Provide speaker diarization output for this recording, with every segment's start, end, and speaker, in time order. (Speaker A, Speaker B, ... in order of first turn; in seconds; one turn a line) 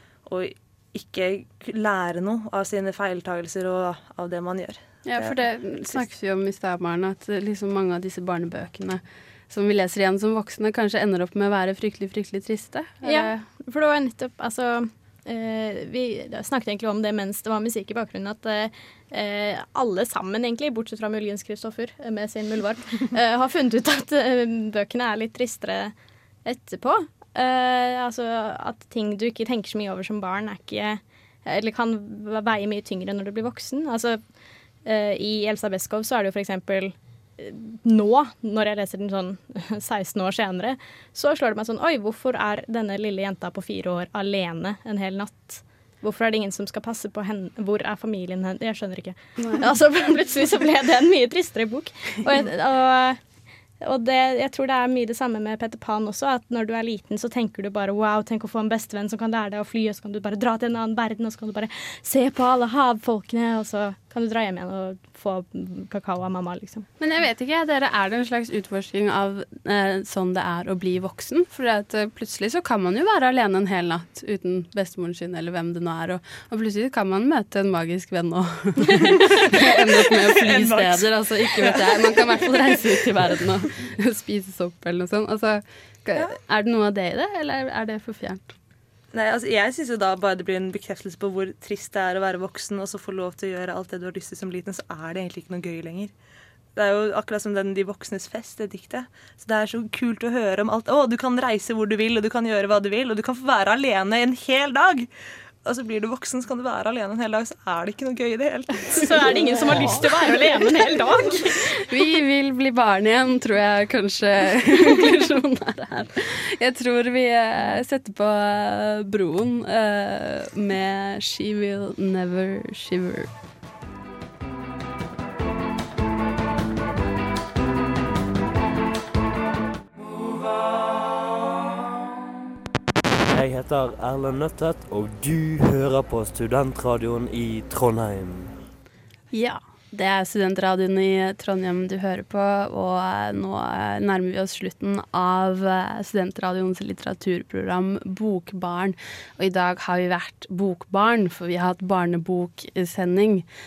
Speaker A: 0.2-5.4
Speaker B: 5.0-13.4
Speaker C: 13.0-25.9
Speaker C: 26.4-34.2
Speaker C: 34.8-53.2
Speaker C: 53.8-66.9
Speaker B: 67.0-88.5
Speaker A: 79.2-83.4
Speaker A: 89.1-96.1
Speaker A: 96.8-105.1
Speaker A: 105.6-109.0
Speaker C: 108.9-111.7
Speaker B: 109.7-110.0
Speaker B: 111.8-123.3
Speaker D: 133.3-138.5
Speaker B: 139.3-153.4